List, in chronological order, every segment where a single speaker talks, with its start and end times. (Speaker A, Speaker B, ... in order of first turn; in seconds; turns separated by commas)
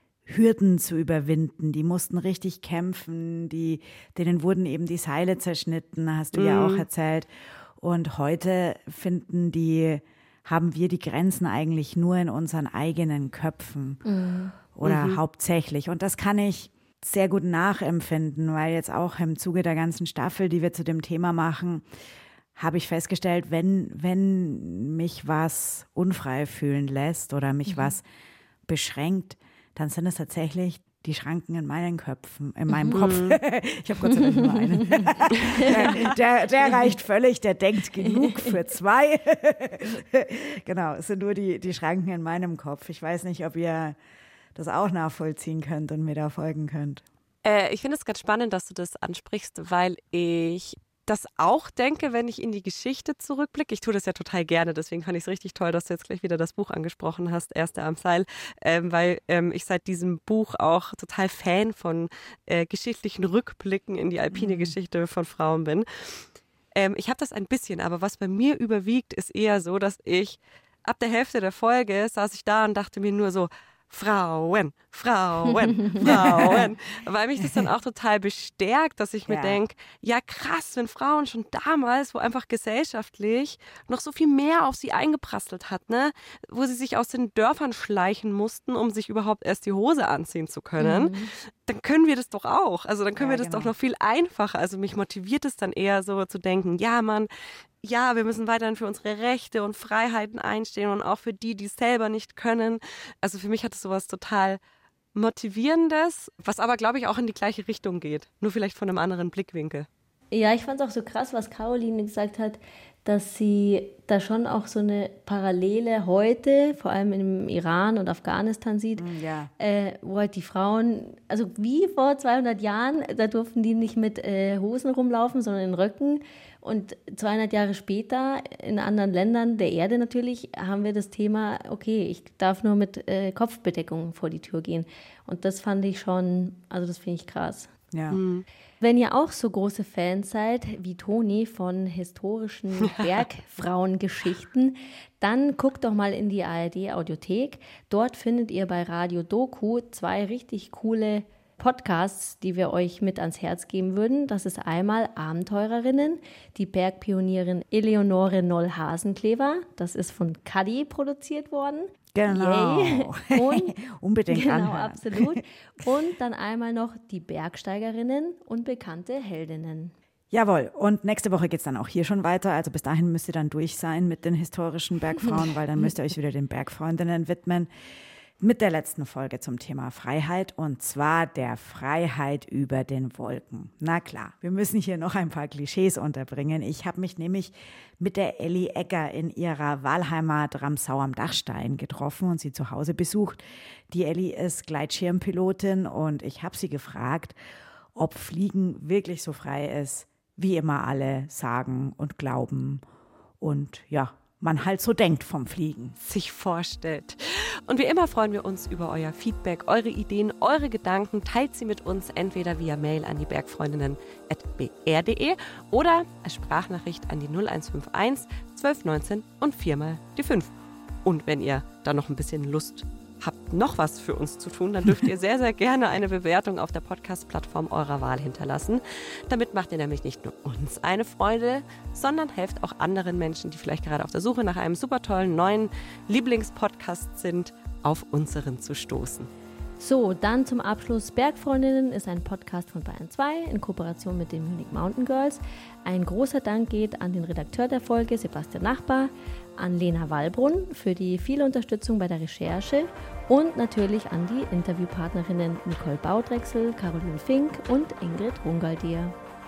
Speaker A: 0.2-14.0, Speaker B: 6.3-6.9, Speaker C: 14.0-14.5, Speaker A: 14.7-21.8, Speaker B: 14.8-15.2, Speaker A: 22.6-28.0, Speaker A: 28.7-44.0, Speaker C: 32.7-33.0, Speaker B: 32.9-33.4, Speaker C: 38.1-38.3, Speaker A: 44.5-47.0, Speaker B: 47.4-66.2, Speaker A: 64.3-64.7, Speaker B: 66.7-97.3, Speaker A: 76.0-76.7, Speaker A: 77.4-77.7, Speaker A: 79.2-79.6, Speaker C: 90.8-91.2, Speaker A: 93.2-93.7, Speaker B: 97.8-104.6, Speaker B: 105.1-109.9, Speaker C: 110.3-119.0, Speaker A: 119.0-119.5, Speaker C: 119.6-137.7, Speaker A: 137.9-138.2, Speaker B: 138.1-138.4, Speaker C: 138.8-163.7, Speaker A: 162.1-165.4, Speaker C: 164.3-169.9, Speaker A: 170.3-177.7, Speaker A: 178.4-197.3, Speaker A: 197.9-202.8, Speaker A: 203.4-205.9, Speaker B: 206.0-220.5, Speaker B: 221.0-239.3, Speaker C: 239.8-259.1